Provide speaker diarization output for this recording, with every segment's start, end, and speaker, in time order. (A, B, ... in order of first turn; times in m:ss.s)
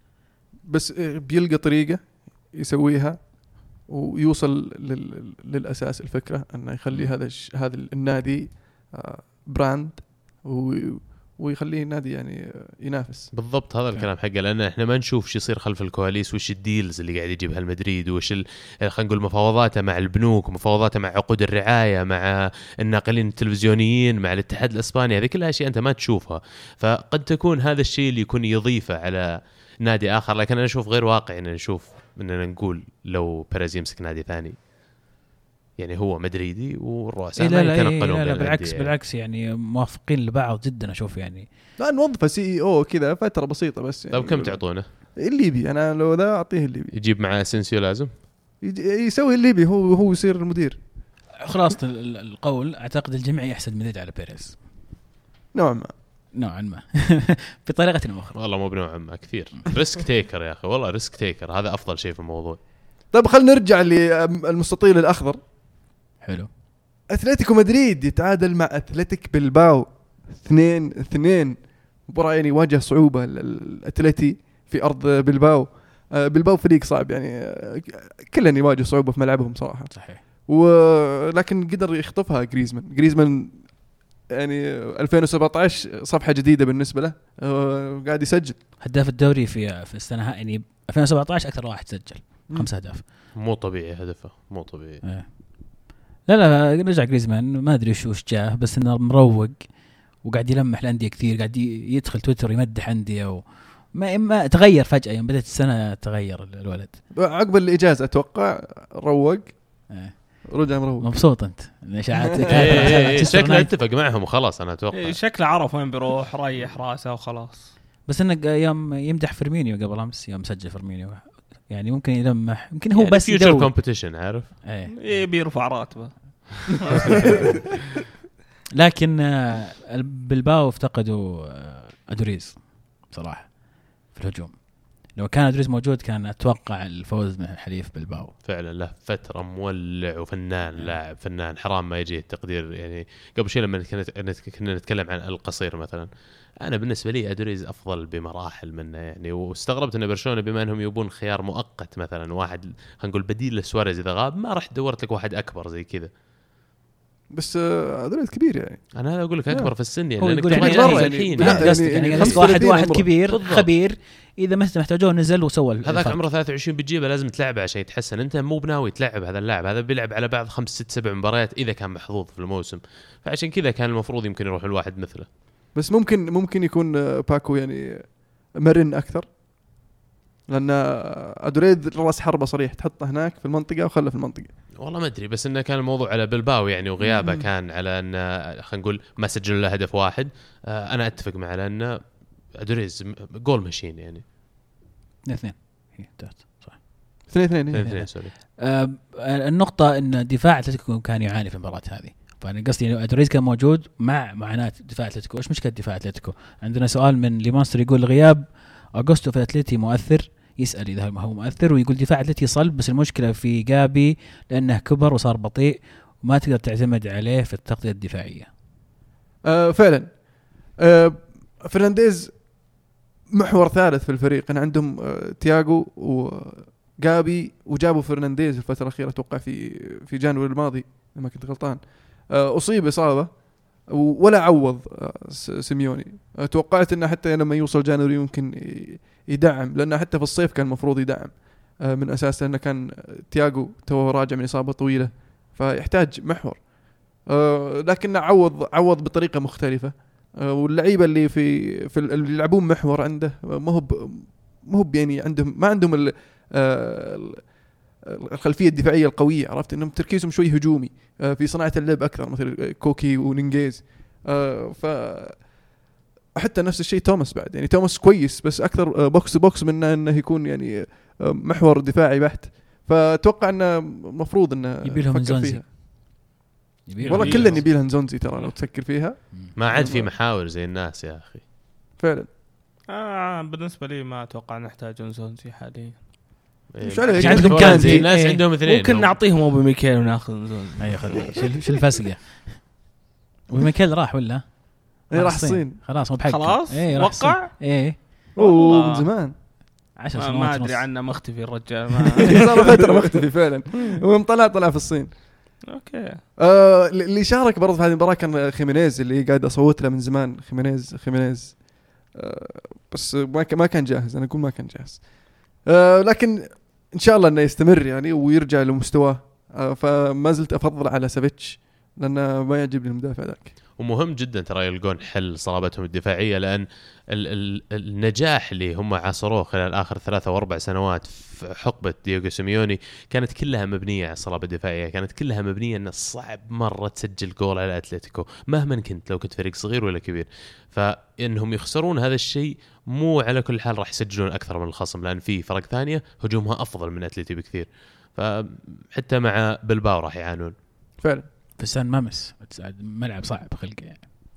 0:00.7-0:13.3 A
0:13.3-0:34.6 B
0:35.8-0:38.9 B
0:37.4-0:41.5 C
0:41.8-0:46.9 A
0:44.1-0:44.9 B
0:47.0-0:48.1 B
0:48.6-0:50.8 A
0:51.4-0:54.6 C
0:55.5-0:55.9 A
0:56.3-0:58.4 C
0:58.4-1:02.6 B
1:03.1-1:05.4 A
1:06.2-1:06.5 C
1:07.1-1:28.6 A
1:19.9-1:20.2 C
1:28.8-1:33.0 C
1:33.4-1:35.0 B
1:35.0-1:47.0 C
1:47.1-1:51.3 A
1:49.9-1:53.7 C
1:52.5-1:52.9 A
1:52.5-1:55.2 B
1:54.9-1:57.7 D
1:58.1-2:04.0 C
2:02.9-2:04.6 B
2:04.6-2:05.2 C
2:04.9-2:07.5 D
2:08.8-2:18.3 C
2:18.4-2:26.1 B
2:26.6-2:36.1 B
2:37.3-2:38.9 A
2:39.0-2:42.7 B
2:40.2-2:46.2 C
2:40.5-2:43.1 A
2:43.3-2:43.7 B
2:45.8-2:55.3 B
2:55.8-2:59.3 A
3:00.5-3:04.5 A
3:04.8-3:14.2 B
3:07.0-3:07.5 A
3:15.2-3:38.5 C
3:17.3-3:17.9 A
3:17.7-3:18.4 B
3:39.4-4:17.6 A
4:18.2-4:25.7 A
4:26.4-4:35.7 A
4:34.8-4:35.7 C
4:36.9-4:37.7 C
4:37.0-4:37.7 D
4:37.0-4:40.1 A
4:37.2-4:37.5 B
4:39.6-4:41.4 B
4:42.0-4:42.3 A
4:42.9-4:46.0 D
4:46.7-4:49.2 B
4:46.8-4:48.0 A
4:47.2-4:48.4 C
4:47.7-4:51.3 D
4:50.8-4:52.9 C
4:53.5-4:58.1 C
4:55.1-4:55.8 A
4:56.2-4:57.7 D
4:58.4-4:59.0 D
4:58.4-4:59.3 A
5:00.0-5:00.9 C
5:00.2-5:03.2 D
5:02.3-5:05.5 A
5:05.7-5:06.2 D
5:06.4-5:23.5 A
5:23.8-5:50.5 B
5:51.0-5:51.3 A
5:51.6-5:54.0 C